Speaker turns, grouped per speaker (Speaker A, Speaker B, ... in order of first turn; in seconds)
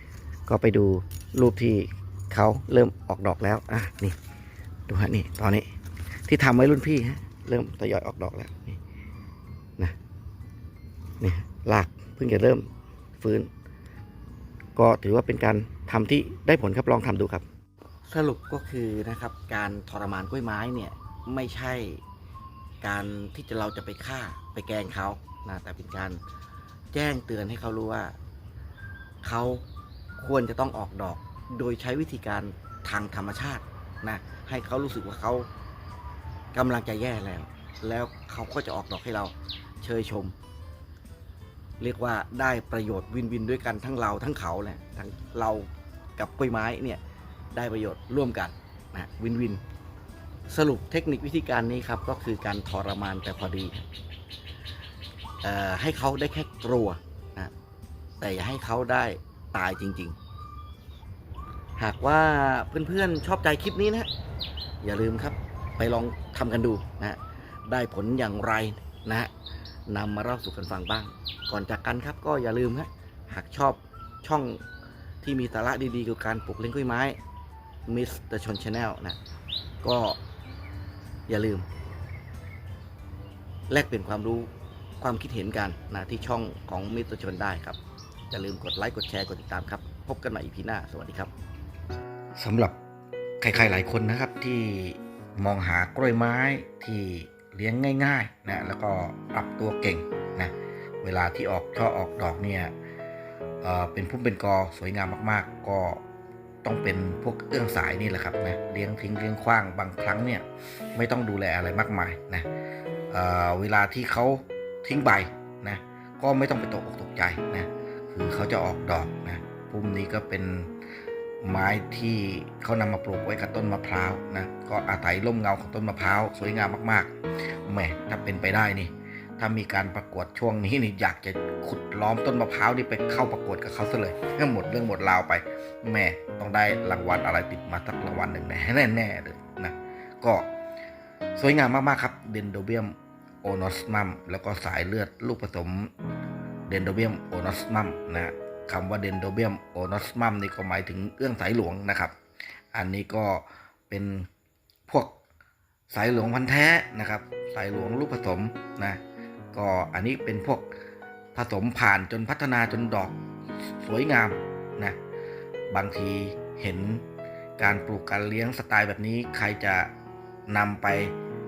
Speaker A: 0.5-4.2, 4.9-5.7, 6.3-8.8, 11.2-13.5, 14.8-17.4, 18.1-22.0, 22.8-26.2, 26.9-28.1, 29.2-29.6, 30.2-35.5, 36.5-40.4, 41.8-47.0, 47.5-49.6, 50.5-53.9, 55.4-57.5, 58.2-60.2, 61.8-64.1, 64.8-69.3, 69.9-74.6, 75.2-77.2, 77.9-79.2, 79.8-80.2, 81.3-81.7, 83.7-91.3, 92.4-92.8, 93.4-102.7, 103.6-106.0, 106.6-112.5, 113.1-120.7, 121.4-140.5, 141.4-145.9, 146.7-152.2, 152.7-154.3, 154.9-155.2, 155.9-159.0, 159.5-160.7, 161.3-163.2, 163.7-165.0, 165.7-167.1, 167.6-169.9, 170.5-171.1